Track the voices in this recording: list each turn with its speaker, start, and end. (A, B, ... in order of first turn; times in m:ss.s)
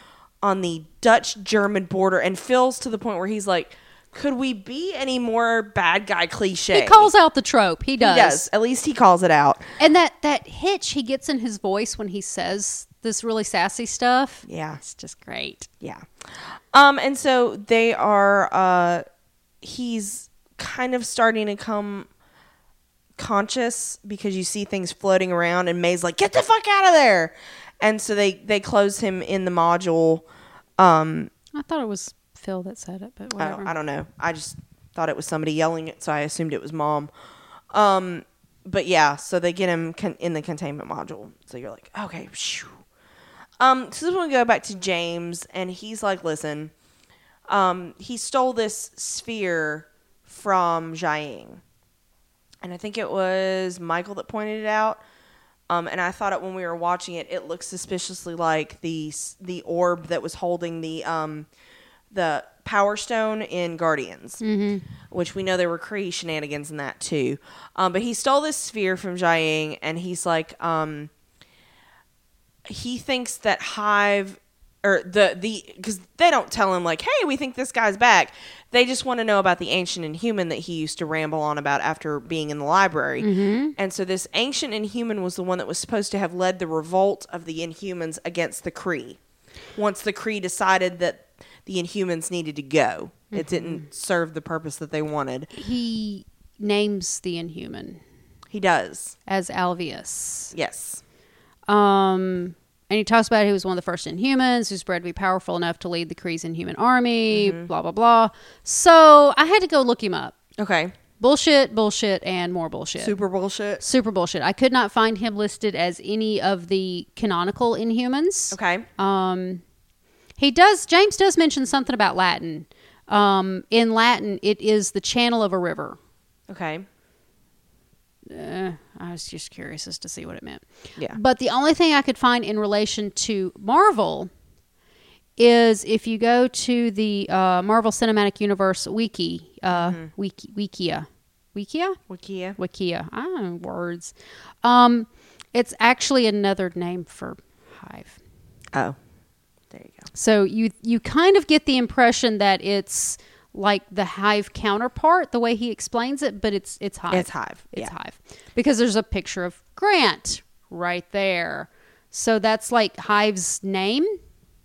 0:00.4-0:07.1 A
0:06.7-0:08.5 B
0:08.0-0:09.7 A
0:09.8-0:15.7 B
0:14.5-0:14.8 A
0:16.7-0:19.0 A
0:19.6-0:22.1 A
0:23.2-0:30.2 A
0:30.8-0:31.3 A
0:31.5-0:33.7 B
0:33.4-0:37.1 A
0:37.7-0:42.8 A
0:43.6-0:46.7 A
0:47.5-0:51.6 A
0:52.6-0:55.0 A
0:55.7-1:01.5 A
1:02.1-1:04.4 A
1:04.4-1:04.9 B
1:05.1-1:11.1 A
1:12.7-1:29.2 A
1:23.2-1:23.8 B
1:29.8-1:35.5 A
1:33.3-1:33.8 B
1:35.5-1:38.0 B
1:38.5-1:39.2 A
1:39.3-1:40.5 B
1:40.5-1:41.0 A
1:41.7-1:50.4 B
1:47.3-1:47.7 A
1:50.6-1:51.0 A
1:51.2-1:53.2 B
1:53.0-1:53.8 A
1:53.8-1:59.6 B
1:58.5-1:58.9 A
2:00.4-2:06.0 B
2:06.5-2:06.9 A
2:08.3-2:14.3 B
2:15.4-2:22.0 B
2:19.7-2:20.1 A
2:22.1-2:22.6 A
2:22.6-2:28.2 B
2:29.7-2:30.1 A
2:30.1-2:44.2 B
2:37.1-2:37.9 A